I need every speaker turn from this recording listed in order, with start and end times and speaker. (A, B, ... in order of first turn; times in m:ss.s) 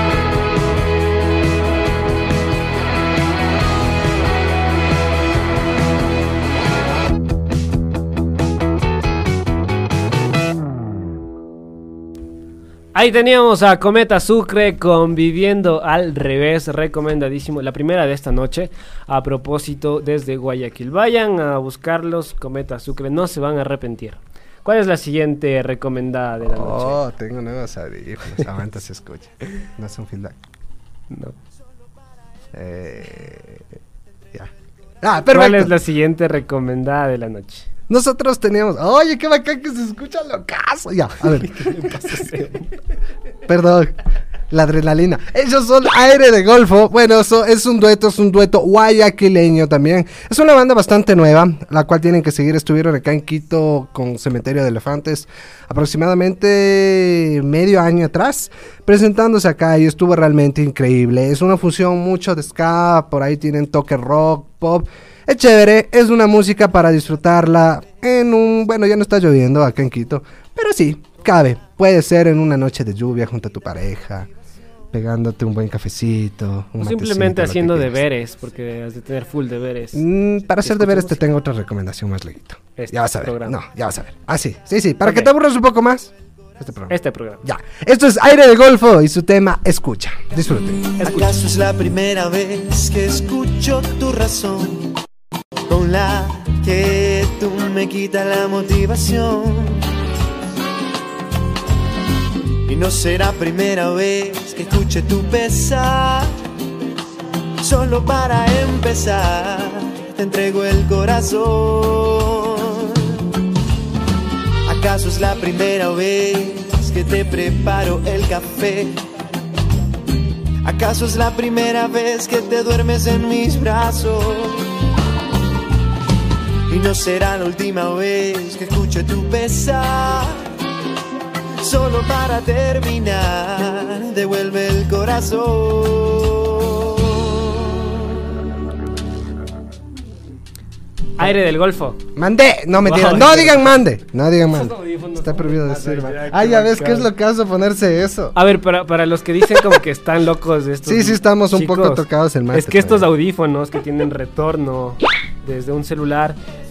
0:12.9-0:27.0 A
0:26.5-0:30.4 B
0:31.1-0:31.4 A
0:32.5-0:33.6 B
0:34.3-0:35.7 B
0:35.3-0:37.6 A
0:37.9-0:42.0 B
0:41.3-0:42.8 A
0:43.4-0:43.9 B
0:44.5-1:14.3 B
1:14.9-1:18.0 B
1:16.8-1:20.0 A
1:19.9-1:30.9 B
1:20.6-1:21.2 A
1:22.8-1:23.6 A
1:25.0-1:25.3 A
1:26.9-1:27.4 A
1:31.0-1:31.4 A
1:31.0-1:34.9 C
1:35.7-1:39.9 C
1:42.7-1:46.3 C
1:47.6-1:53.2 C
1:54.6-1:59.0 C
2:00.6-2:04.6 C
2:06.7-2:10.4 C
2:11.6-2:17.7 C
2:21.2-2:22.0 A
2:22.2-2:28.4 B
2:22.8-2:23.8 A
2:24.5-2:27.1 A
2:28.3-2:36.4 A
2:30.8-2:33.1 B